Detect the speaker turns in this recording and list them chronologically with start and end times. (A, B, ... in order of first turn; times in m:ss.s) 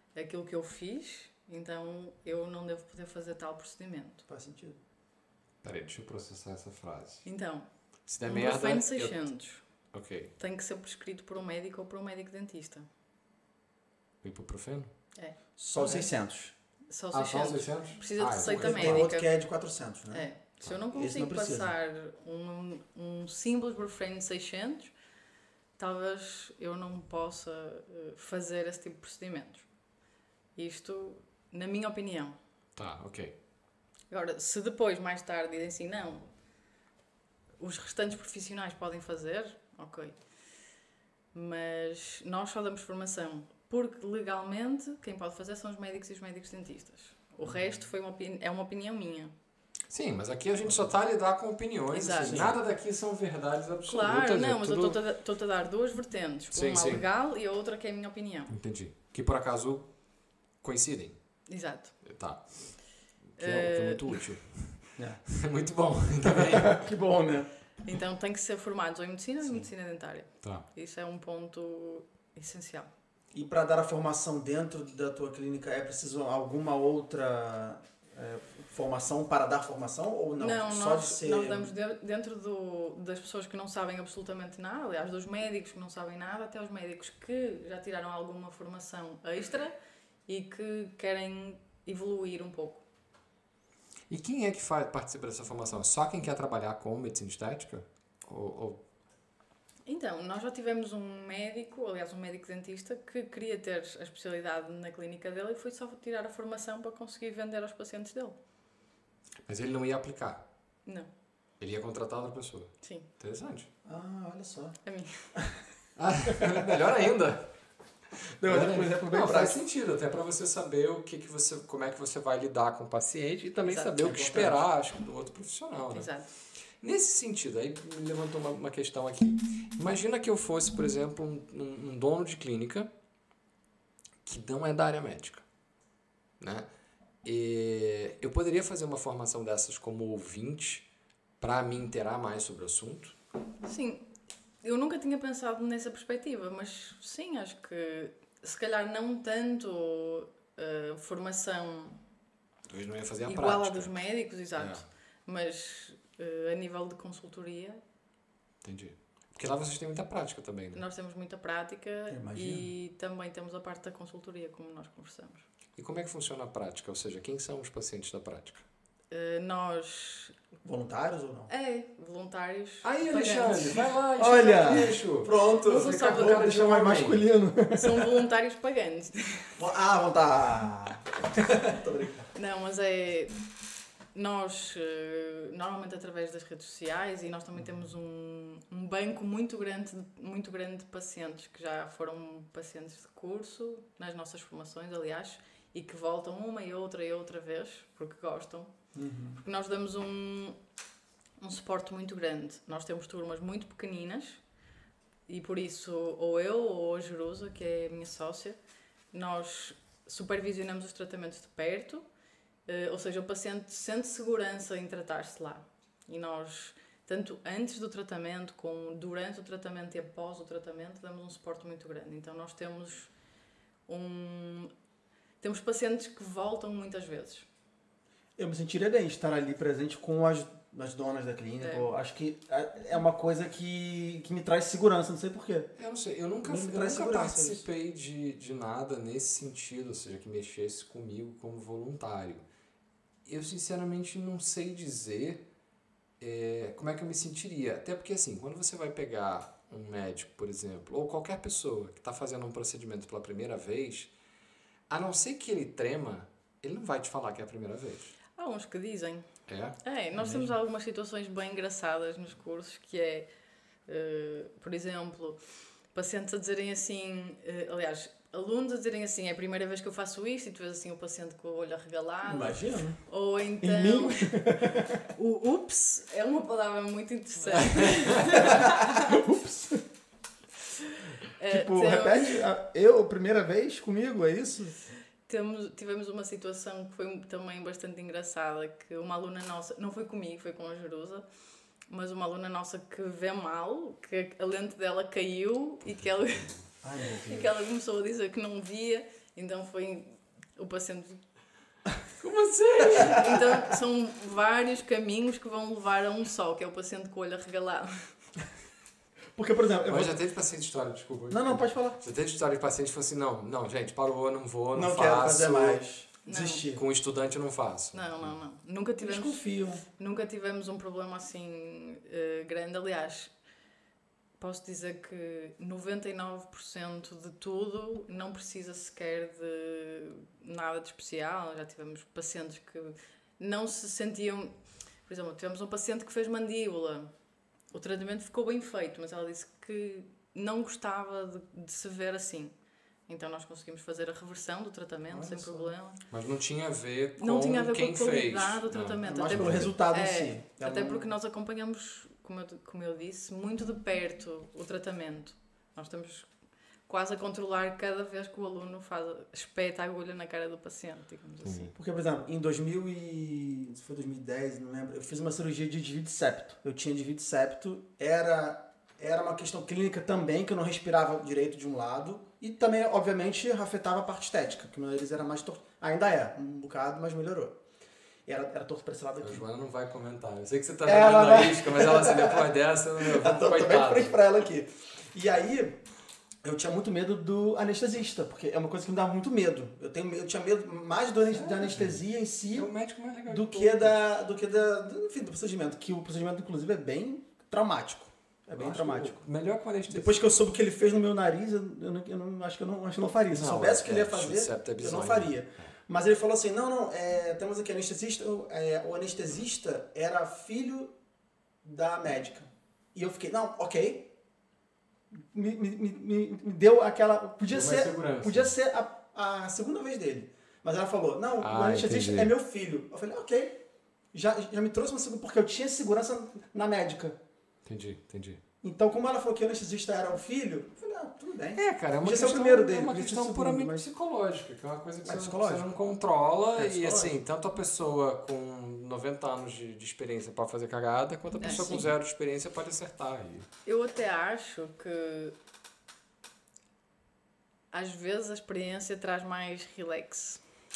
0:00.2-0:04.2 A
0:04.3-0:04.8 B
0:05.6-0:07.3 C
0:07.2-0:09.9 A
0:08.1-0:09.3 C
0:09.9-0:10.3 C
0:10.4-0:12.9 A
0:14.2-0:14.9 C
0:15.2-0:16.0 A
0:15.6-0:16.5 B
0:16.9-0:19.3 A
0:17.1-0:19.1 C
0:18.6-0:20.3 B
0:20.1-0:24.9 A
0:20.9-0:21.7 B
0:25.8-0:29.7 A
0:30.6-0:32.4 A
0:32.8-0:33.4 C
0:34.1-0:36.3 A
0:37.6-0:40.2 A
0:41.3-0:49.3 A
0:49.9-0:55.0 C
0:51.9-0:52.5 A
0:53.9-0:58.5 A
0:56.5-0:57.0 C
0:58.5-1:01.5 C
1:01.5-1:02.0 A
1:02.0-1:06.9 C
1:03.4-1:04.3 A
1:05.0-1:05.3 B
1:06.2-1:07.5 B
1:07.8-1:12.9 A
1:13.3-1:21.7 B
1:20.4-1:29.7 A
1:30.3-1:32.8 A
1:34.1-1:38.8 C
1:39.9-1:48.4 A
1:49.5-1:50.4 C
1:51.6-1:53.7 C
1:52.8-1:53.1 A
1:53.8-1:54.8 B
1:54.8-1:55.4 A
1:56.0-1:57.6 C
1:58.3-2:06.1 C
1:58.4-1:59.6 B
2:03.6-2:04.2 A
2:04.0-2:04.6 B
2:05.9-2:06.3 A
2:06.8-2:12.9 C
2:14.2-2:15.4 C
2:16.4-2:16.7 C
2:17.2-2:20.9 C
2:21.4-2:23.2 C
2:23.6-2:24.1 A
2:24.6-2:32.0 A
2:32.7-2:33.9 C
2:33.3-2:37.8 A
2:34.6-2:34.8 C
2:38.6-2:40.8 C
2:40.7-2:45.4 A
2:42.1-2:42.7 B
2:45.8-2:48.6 C
2:49.1-2:50.3 A
2:50.6-2:51.5 B
2:51.5-2:55.0 A
2:52.8-2:57.3 C
2:54.2-2:58.0 B
2:55.6-2:56.5 A
2:57.7-2:59.5 A
2:59.6-3:02.3 B
3:02.3-3:03.4 A
3:04.1-3:18.7 A
3:19.0-3:19.4 B
3:19.4-3:20.6 A
3:21.4-3:24.4 A
3:25.3-3:28.6 A
3:29.1-3:32.0 A
3:32.7-3:43.1 A
3:43.9-3:44.7 A
3:45.4-3:47.5 A
3:48.4-3:55.7 B
3:51.6-3:51.9 A
3:55.8-4:02.4 C
3:56.4-3:57.6 B
4:03.3-4:05.5 C
4:06.2-4:14.1 C
4:14.9-4:18.2 C
4:18.4-4:19.2 A
4:19.5-4:19.8 C
4:19.8-4:23.3 A
4:20.2-4:20.5 B
4:23.9-4:25.4 A
4:25.9-4:34.5 A
4:32.3-4:33.0 B
4:33.6-4:35.0 B
4:35.1-4:39.1 A
4:37.6-4:38.2 C
4:38.4-4:39.9 B
4:41.4-4:42.4 A
4:41.5-4:44.8 B
4:45.3-4:51.3 A
4:51.9-4:56.7 A
4:56.8-4:57.5 B
4:57.2-5:01.2 A
5:02.2-5:03.3 C
5:02.9-5:08.1 A
5:09.4-5:10.1 B
5:09.9-5:15.8 C
5:11.3-5:12.0 B
5:14.7-5:16.8 B
5:16.3-5:16.7 A
5:16.8-5:18.3 C
5:17.9-5:23.3 A
5:19.0-5:19.8 B
5:24.4-5:37.1 A
5:37.7-5:42.5 A
5:43.1-5:46.0 A
5:45.1-5:45.7 B
5:46.1-5:49.7 C
5:47.2-5:56.3 A
5:49.0-5:51.1 B
5:56.9-6:01.7 A
6:01.4-6:01.7 C
6:01.8-6:17.6 B
6:18.3-6:19.4 B
6:19.2-6:24.2 C
6:20.8-6:22.4 B
6:23.0-6:25.8 B
6:26.4-6:32.7 B
6:31.3-6:32.0 C
6:32.5-6:34.0 C
6:33.3-6:39.2 B
6:38.5-6:40.2 C
6:39.9-6:50.9 B
6:43.3-6:45.7 C
6:51.6-6:54.1 B
6:55.1-7:03.6 B
6:57.5-6:58.5 C
7:01.4-7:02.3 C
7:04.1-7:07.2 B
7:07.6-7:08.4 C
7:08.6-7:13.9 B
7:11.6-7:23.5 C
7:15.0-7:15.7 B
7:16.6-7:17.2 B
7:21.4-7:21.9 A
7:23.6-7:25.4 A
7:27.7-7:30.4 A